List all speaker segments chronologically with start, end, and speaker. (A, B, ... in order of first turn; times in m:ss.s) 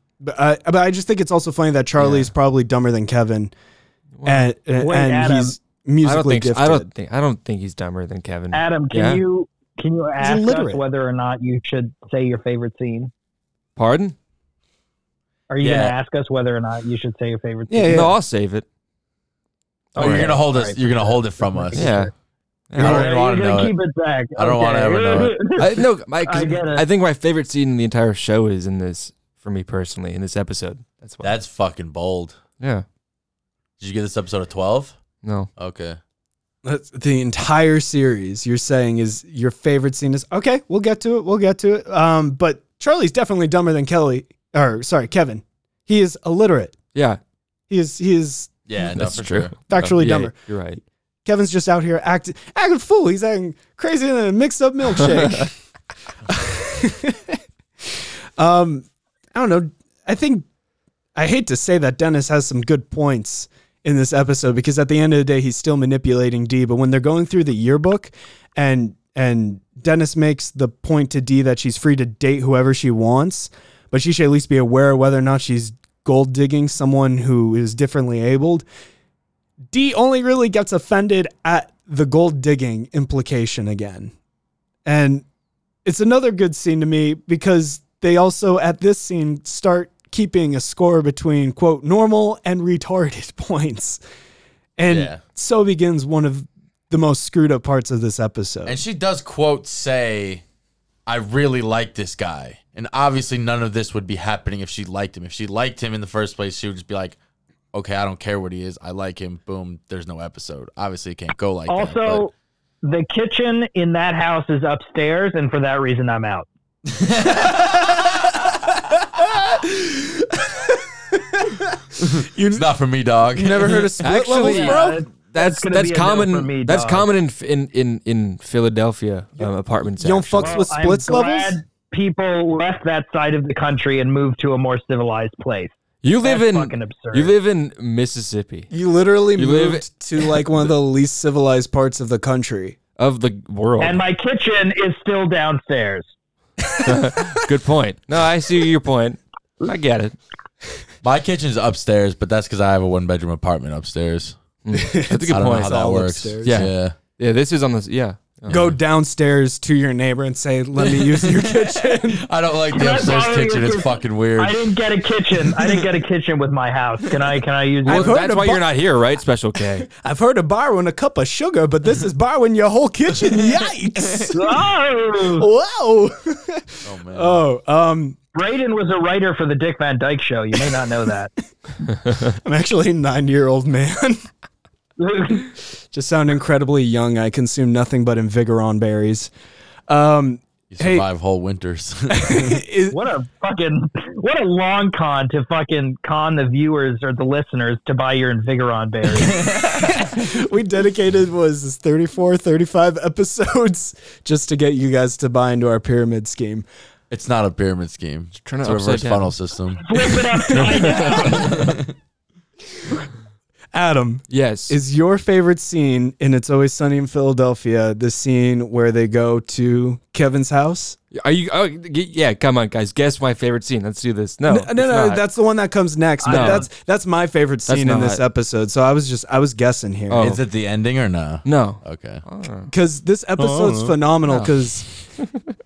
0:00.2-0:03.5 A
0:02.0-0:02.3 B
0:04.2-0:04.5 B
0:04.2-0:06.9 A
0:04.8-0:05.6 C
0:06.0-0:09.2 B
0:08.5-0:13.1 C
0:10.2-0:10.8 A
0:13.8-0:14.2 B
0:15.5-0:18.0 C
0:15.6-0:15.9 D
0:17.7-0:18.1 A
0:17.9-0:18.6 B
0:19.9-0:22.1 C
0:20.0-0:22.0 D
0:20.0-0:20.3 B
0:21.7-0:22.1 B
0:22.7-0:23.0 B
0:22.8-0:23.7 D
0:22.8-0:26.8 C
0:24.4-0:25.4 D
0:25.6-0:31.3 B
0:31.2-0:32.4 D
0:32.6-0:32.8 B
0:33.8-0:35.0 D
0:35.2-0:35.5 B
0:35.6-0:36.0 D
0:36.6-0:46.8 A
0:46.9-0:47.2 B
0:47.7-0:48.5 A
0:48.7-0:49.5 D
0:48.9-0:50.8 B
0:49.7-0:50.3 A
0:51.2-0:55.5 A
0:55.0-0:55.4 B
0:56.3-0:57.4 A
0:58.4-1:00.4 A
1:01.2-1:18.6 A
1:19.7-1:24.1 A
1:24.8-1:25.2 A
1:25.8-1:34.0 A
1:34.8-1:38.8 A
1:34.9-1:35.2 D
1:38.6-1:40.4 D
1:41.1-1:47.2 D
1:47.7-1:52.3 D
1:51.7-1:52.3 C
1:52.8-1:56.5 C
1:56.9-1:58.0 D
1:59.2-2:02.7 A
2:02.0-2:03.9 D
2:03.3-2:05.0 A
2:04.0-2:10.6 B
2:04.4-2:07.1 C
2:09.4-2:11.6 A
2:10.4-2:17.3 C
2:16.0-2:18.7 B
2:18.7-2:22.8 A
2:19.3-2:20.7 B
2:23.0-2:24.0 B
2:23.8-2:26.1 C
2:26.8-2:30.1 B
2:31.0-2:34.4 D
2:34.6-2:35.7 B
2:34.7-2:36.7 A
2:35.3-2:36.9 D
2:36.4-2:38.7 B
2:38.5-2:42.2 A
2:40.8-2:44.7 D
2:42.7-2:48.1 C
2:47.8-2:48.7 A
2:47.8-2:49.9 B
2:49.9-2:54.4 A
2:53.2-2:54.3 D
2:54.3-2:55.4 C
2:55.4-2:58.2 A
2:56.8-2:57.4 D
2:58.3-3:01.3 C
3:02.0-3:04.2 A
3:05.0-3:05.5 C
3:05.9-3:09.3 A
3:09.9-3:11.0 A
3:10.7-3:12.6 D
3:12.1-3:13.0 A
3:12.9-3:19.5 C
3:19.2-3:19.9 D
3:19.7-3:26.6 A
3:27.1-3:31.9 D
3:28.4-3:29.3 B
3:29.8-3:31.6 C
3:30.6-3:31.5 B
3:33.7-3:41.0 A
3:34.3-3:34.8 B
3:41.1-3:45.2 B
3:44.5-3:50.2 A
3:46.2-3:46.6 C
3:46.3-3:46.6 B
3:47.7-3:48.2 B
3:50.1-3:50.4 B
3:50.2-3:52.2 D
3:51.4-3:52.7 B
3:52.7-3:54.9 A
3:53.4-3:53.9 D
3:54.2-3:54.6 B
3:55.2-3:55.5 B